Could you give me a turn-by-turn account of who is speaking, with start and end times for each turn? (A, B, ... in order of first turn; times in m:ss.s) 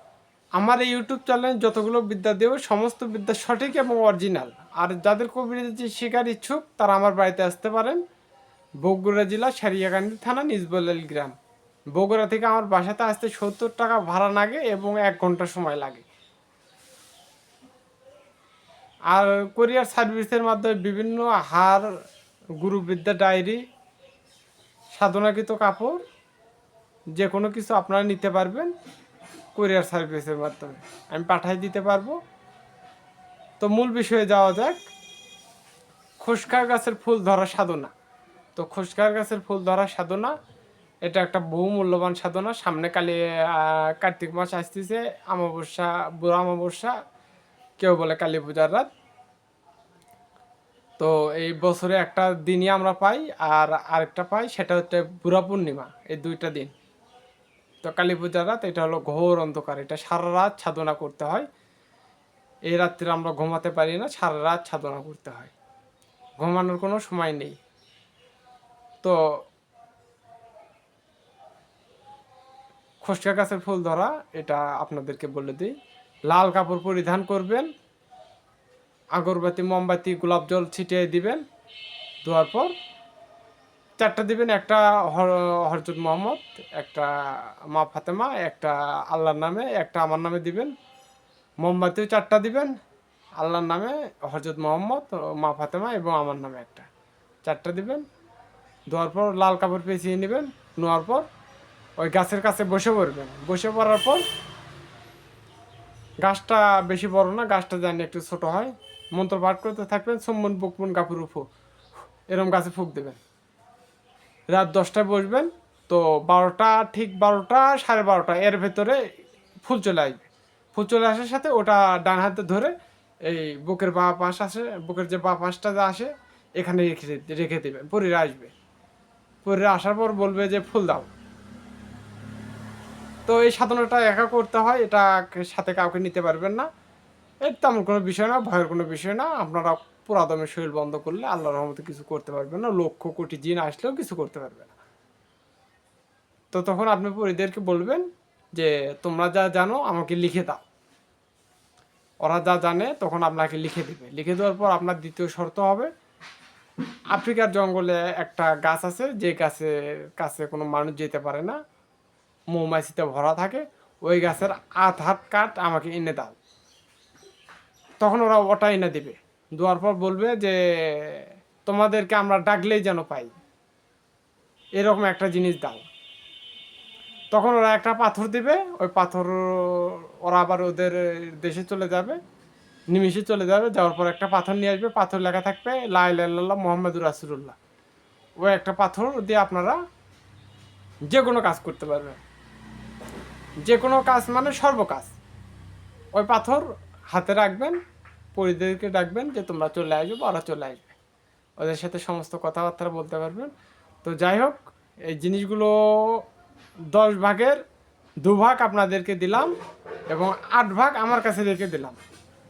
0:00.6-0:08.0 A
0:08.8-0:11.3 A
0:11.9-0:16.0 A
0:19.1-0:21.9 A
0:22.6-0:23.6 A
0:24.9-0:26.0 A
0:27.2-0:28.7 A
0:29.5-0:32.2 A
0:33.6-0:34.8 A
0:36.2-0:37.9 A
0:38.6-0:40.3 A
0:41.0-0:47.0 A
0:47.8-0:48.9 A
0:51.0-0:56.7 A
0:57.8-1:01.5 A
1:02.7-1:05.5 A
1:06.4-1:07.6 A
1:13.0-1:15.7 A
1:16.3-1:17.7 A
1:19.2-1:21.4 A
1:22.2-1:22.7 A
1:24.0-1:27.1 A
1:27.7-1:30.7 A
1:31.6-1:32.7 A
1:33.4-1:36.9 A
1:37.4-1:38.0 A
1:38.9-1:41.2 A
1:42.0-1:44.2 A
1:46.2-1:51.4 A
1:52.3-1:53.2 A
1:54.5-1:59.0 A
1:59.6-2:02.7 A
2:03.3-2:08.5 A
2:09.4-2:11.1 A
2:13.3-2:16.7 A
2:17.4-2:24.8 A
2:26.5-2:30.6 A
2:32.2-2:35.9 A
2:37.1-2:41.6 A
2:42.5-2:46.4 A
2:48.0-2:53.3 A
2:54.8-2:55.9 A
2:57.3-3:02.2 A
3:02.9-3:07.6 A
3:08.4-3:09.8 A
3:11.1-3:12.2 A
3:13.6-3:15.1 A
3:16.1-3:17.8 A
3:18.4-3:21.0 A
3:21.6-3:23.5 A
3:24.0-3:26.2 A
3:26.9-3:27.6 A
3:28.2-3:29.5 A
3:30.1-3:32.0 A